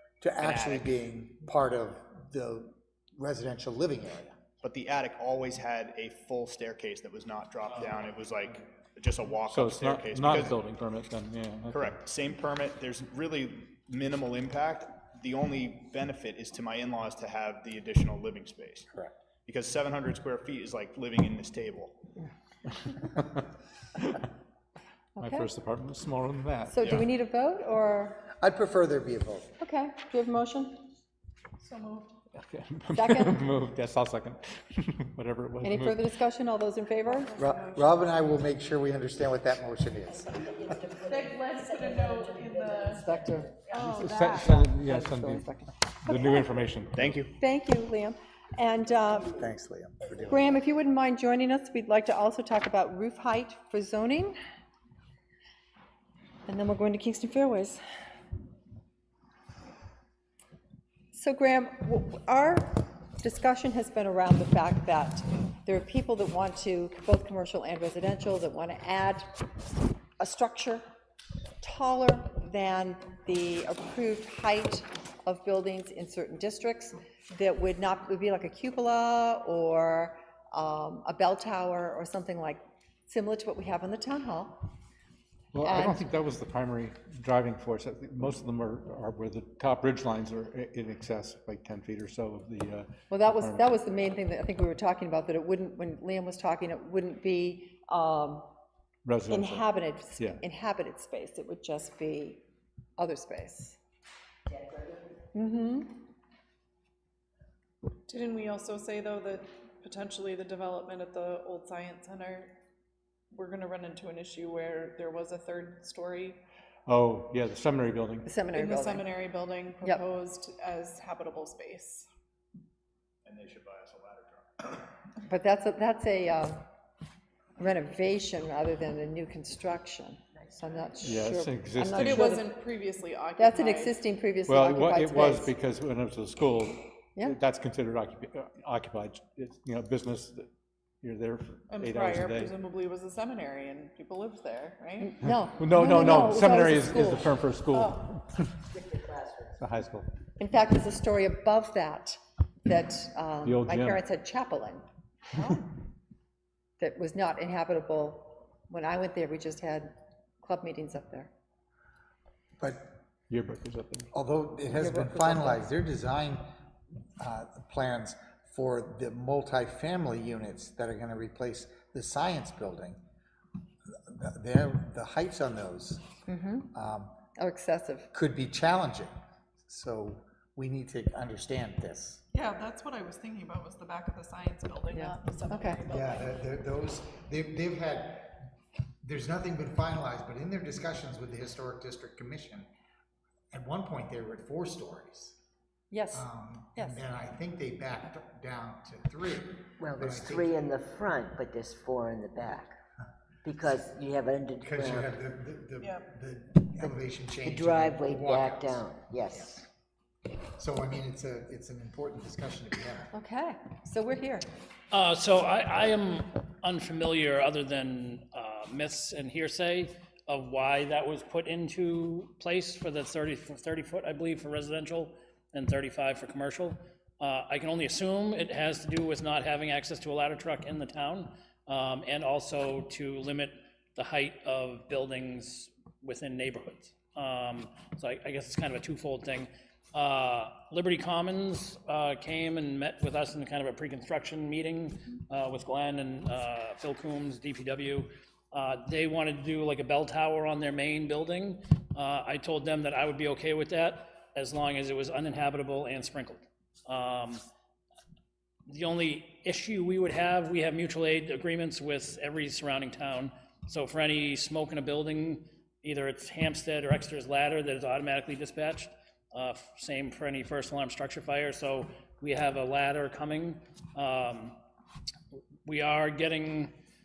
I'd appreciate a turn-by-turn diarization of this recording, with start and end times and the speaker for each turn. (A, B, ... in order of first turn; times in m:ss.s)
0:00.2-0:04.4 A
0:00.4-0:00.9 B
0:04.6-0:10.6 B
0:09.5-0:12.0 C
0:11.7-0:18.9 B
0:18.9-0:19.2 A
0:19.4-0:22.0 B
0:23.1-0:23.4 C
0:25.2-0:25.5 D
0:25.2-0:27.0 C
0:26.7-0:28.2 D
0:28.4-0:29.5 A
0:29.6-0:30.9 D
0:31.6-0:32.1 E
0:32.3-0:36.0 C
0:32.9-0:33.4 D
0:35.6-0:37.3 D
0:37.2-0:37.8 E
0:37.4-0:40.4 A
0:41.1-0:43.0 E
0:42.9-0:46.3 D
0:43.7-0:44.1 E
0:43.8-0:47.0 C
0:46.9-0:47.3 B
0:47.4-0:49.4 D
0:49.2-0:50.5 A
0:50.3-0:54.4 D
0:56.5-0:57.8 D
1:01.1-1:09.3 D
1:10.2-1:10.8 D
1:11.6-1:24.7 D
1:25.5-1:33.6 C
1:25.6-1:26.0 D
1:33.1-1:38.5 D
1:39.0-1:40.4 C
1:39.3-1:42.4 D
1:43.0-1:43.8 D
1:45.3-1:46.0 D
1:48.1-1:52.5 E
1:53.3-1:56.4 E
1:56.8-1:58.3 C
1:58.2-1:59.2 D
1:58.6-2:02.0 E
2:03.2-2:04.9 B
2:05.2-2:06.6 D
2:07.6-2:12.6 D
2:11.0-2:12.4 C
2:12.1-2:13.9 E
2:13.4-2:15.5 D
2:14.5-2:20.5 C
2:21.0-2:22.6 C
2:21.7-2:25.1 E
2:25.0-2:27.3 D
2:25.2-2:28.4 C
2:28.7-2:29.5 F
2:29.6-2:30.1 C
2:30.4-2:34.8 D
2:33.4-2:34.0 C
2:36.8-2:39.9 D
2:40.4-2:41.3 D
2:42.6-2:43.0 A
2:43.3-2:44.1 C
2:44.1-2:46.5 A
2:44.7-2:45.6 D
2:47.2-2:53.0 A
2:54.0-2:56.0 A
2:56.3-2:56.7 D
2:56.7-2:57.2 A
2:57.4-2:58.1 D
2:58.1-3:02.2 A
3:02.3-3:06.2 E
3:04.9-3:05.8 D
3:05.9-3:08.5 A
3:09.0-3:12.7 A
3:13.5-3:15.4 A
3:15.9-3:17.0 D
3:16.1-3:20.5 A
3:19.8-3:22.8 F
3:23.4-3:25.2 F
3:24.6-3:29.6 A
3:26.8-3:29.6 F
3:30.6-3:33.1 A
3:33.1-3:34.5 D
3:34.9-4:17.4 G
4:18.7-4:34.6 G
4:35.6-4:36.7 G